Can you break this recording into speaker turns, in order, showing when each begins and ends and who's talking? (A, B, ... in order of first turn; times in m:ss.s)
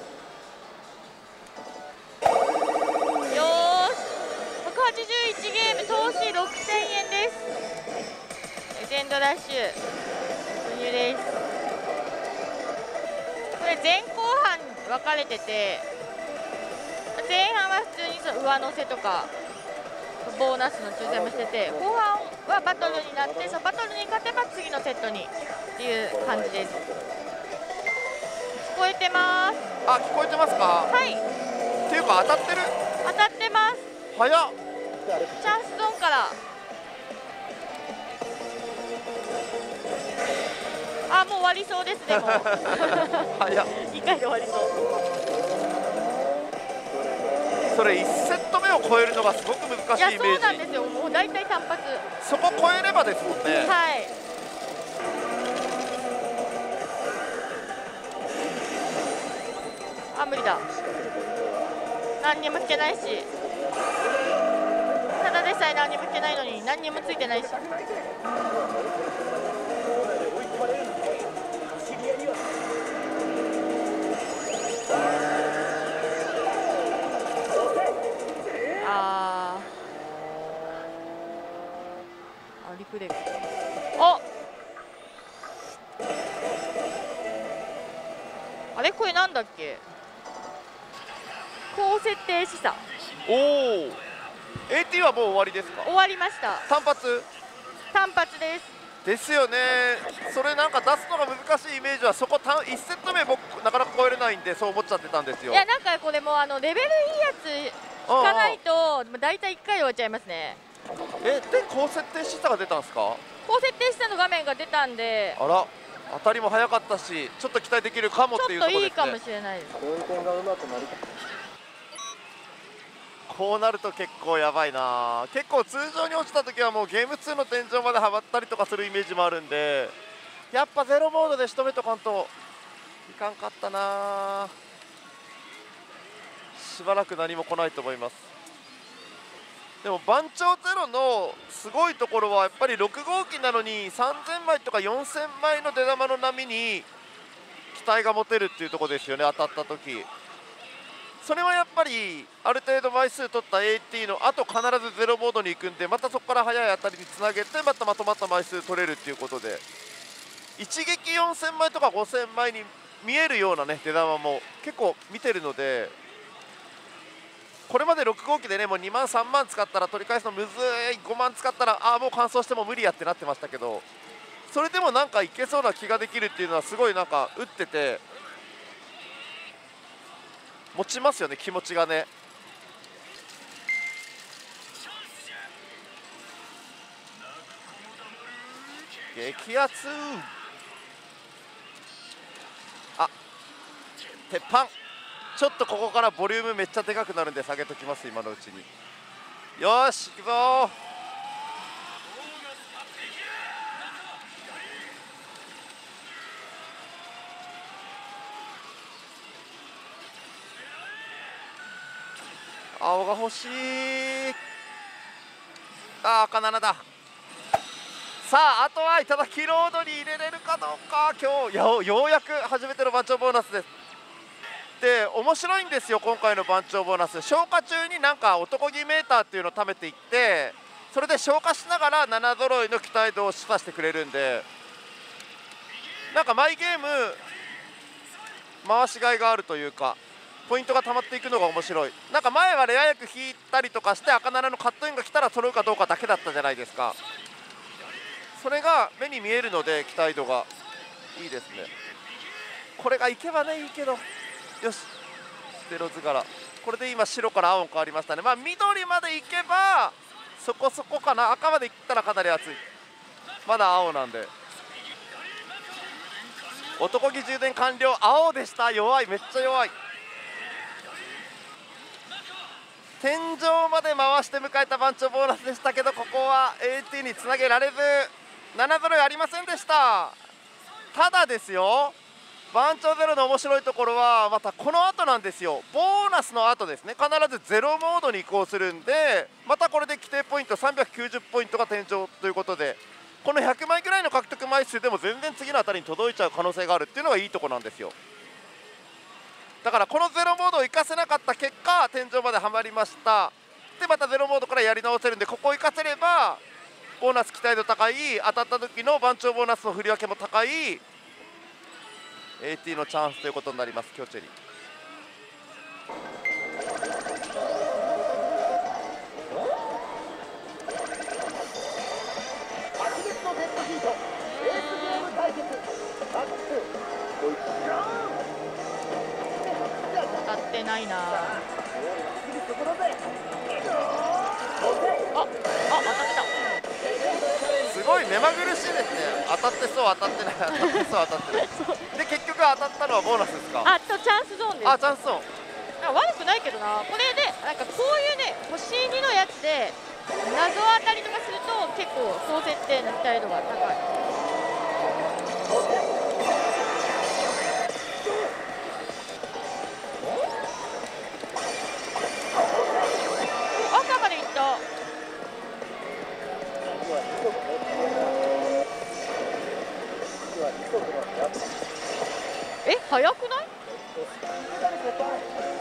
0:03.3-0:07.4 A
0:08.7-0:09.8 A
0:10.6-0:11.3 A
0:13.6-0:15.8 A
0:17.1-0:19.3 A
0:20.2-0:26.8 A
0:21.0-0:21.9 B
0:22.8-0:23.6 B
0:26.1-0:27.2 B
0:28.6-0:29.6 A
0:29.8-0:30.9 C
0:30.9-0:31.2 A
0:31.9-0:32.7 C
0:33.0-0:33.9 A
0:34.1-0:34.5 C
0:35.1-0:35.4 B
0:35.4-0:36.4 A
0:41.1-0:44.8 A
0:42.1-0:43.7 C
0:47.7-0:50.6 C
0:50.0-0:52.1 A
0:52.2-0:53.8 C
0:53.4-0:54.1 A
1:00.1-1:00.7 A
1:00.8-1:01.6 B
1:02.2-1:03.3 A
1:05.2-1:07.6 A
1:07.7-1:08.1 B
1:09.9-1:11.0 B
1:18.8-1:19.7 A
1:22.6-1:23.3 A
1:24.0-1:24.2 A
1:28.8-1:29.8 A
1:31.7-1:32.8 A
1:33.2-1:34.0 C
1:34.7-1:35.9 C
1:35.8-1:36.6 A
1:36.7-1:37.3 C
1:37.9-1:38.7 A
1:39.0-1:45.6 C
1:45.5-1:50.6 A
1:48.0-1:48.6 C
1:51.2-1:53.2 C
1:53.4-1:55.4 A
1:55.4-1:59.2 C
1:58.4-1:59.8 A
1:59.8-2:01.0 B
2:03.3-2:09.9 C
2:10.5-2:12.3 C
2:13.1-2:14.5 C
2:16.5-2:18.3 C
2:19.8-2:26.9 C
2:27.7-2:30.1 C
2:31.2-2:39.6 C
2:40.6-2:45.9 C
2:47.7-2:53.8 C
2:54.5-2:58.0 C
3:00.7-3:02.1 C
3:09.1-3:10.3 C
3:14.3-3:14.7 C
3:15.4-3:18.7 C
3:19.6-3:20.8 C
3:32.8-3:34.4 C
3:36.0-3:36.8 C
3:38.2-3:43.7 C
3:44.8-3:54.4 C
3:56.1-3:57.2 C
3:58.6-4:07.0 C
4:08.4-4:10.5 C
4:11.2-4:11.7 C
4:12.8-4:14.0 C
4:14.6-4:14.9 C
4:15.6-4:22.6 C
4:23.4-4:24.3 C
4:26.8-4:29.7 C
4:33.0-4:40.2 C
4:40.9-4:41.9 C
4:42.5-4:57.9 C
4:59.6-5:06.4 C
5:07.0-5:10.8 C
5:12.4-5:14.3 C
5:22.9-5:23.9 B
5:24.2-5:25.2 A
5:30.0-5:31.4 A
5:35.1-5:36.3 A
5:37.5-5:43.7 C
5:40.5-5:41.9 A
5:43.6-5:44.8 A
5:44.6-5:45.3 C
5:45.8-5:53.8 A
6:03.6-6:04.6 A
6:06.8-6:08.2 B
6:10.3-6:11.5 B
6:12.6-6:13.5 A
6:14.6-6:15.2 B